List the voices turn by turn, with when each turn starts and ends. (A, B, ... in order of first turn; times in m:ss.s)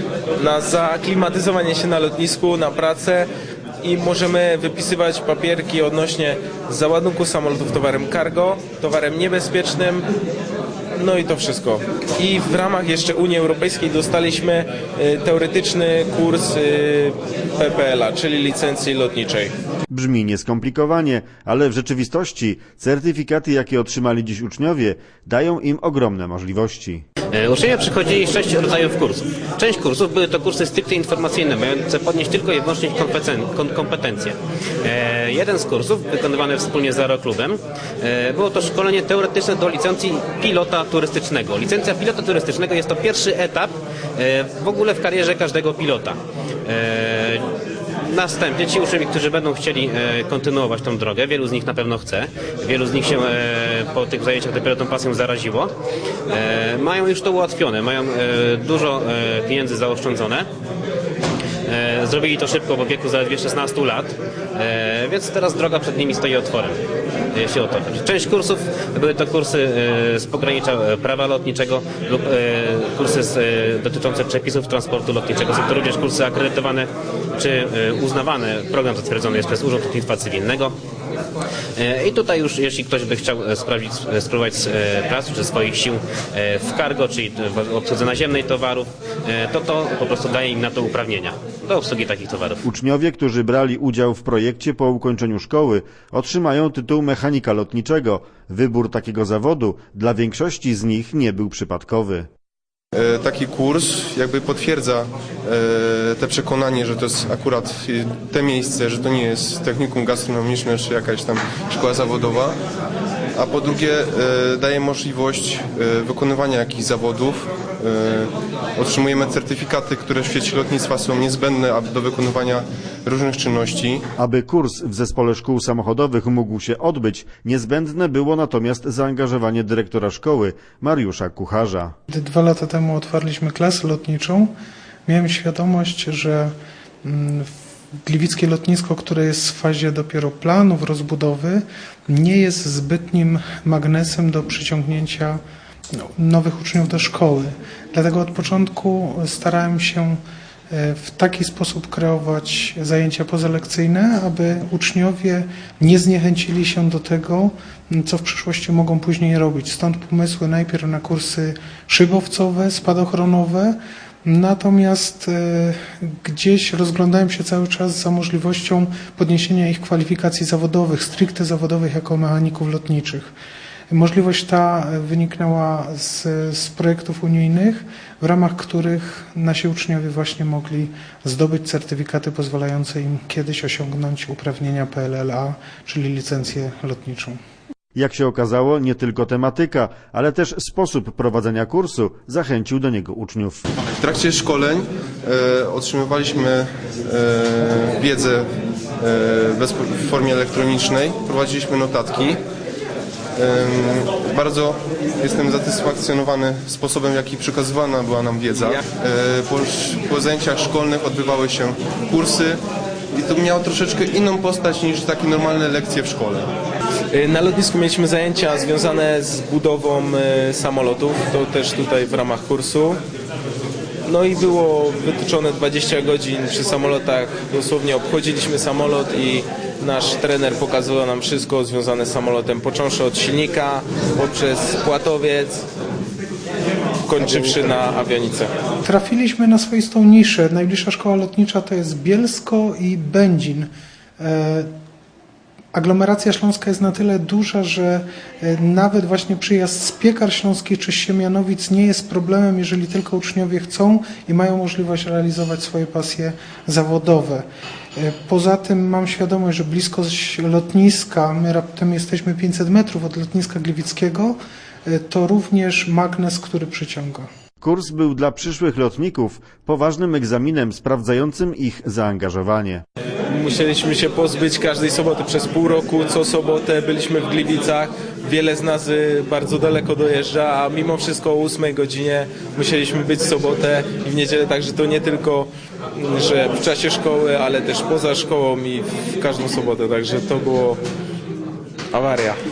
0:00.4-0:03.3 A
0:03.8-0:10.0 A
0:11.0-0:19.5 A
0:19.9-0:27.0 B
0:27.3-0:47.4 C
0:48.1-0:55.7 C
0:56.3-1:00.5 C
1:01.7-1:06.8 C
1:07.3-1:20.8 C
1:21.8-1:32.6 C
1:32.6-1:42.3 B
1:42.9-1:52.6 D
1:53.4-2:04.1 D
2:04.2-2:12.0 B
2:12.1-2:14.5 E
2:15.1-2:17.5 E
2:18.1-2:25.4 E
2:25.9-2:30.2 E
2:30.7-2:53.3 E
2:53.9-3:07.4 E
3:08.0-3:13.6 B
3:14.0-3:18.4 D
3:19.0-3:22.4 D
3:23.4-3:32.6 D
3:33.1-3:36.5 D
3:37.1-3:43.0 A
3:44.1-3:55.6 A
3:57.1-3:58.5 A
3:58.8-4:04.7 E
4:05.7-4:17.4 E
4:18.0-4:27.3 E
4:27.6-4:32.8 B
4:33.3-4:50.8 A
4:51.9-4:52.4 A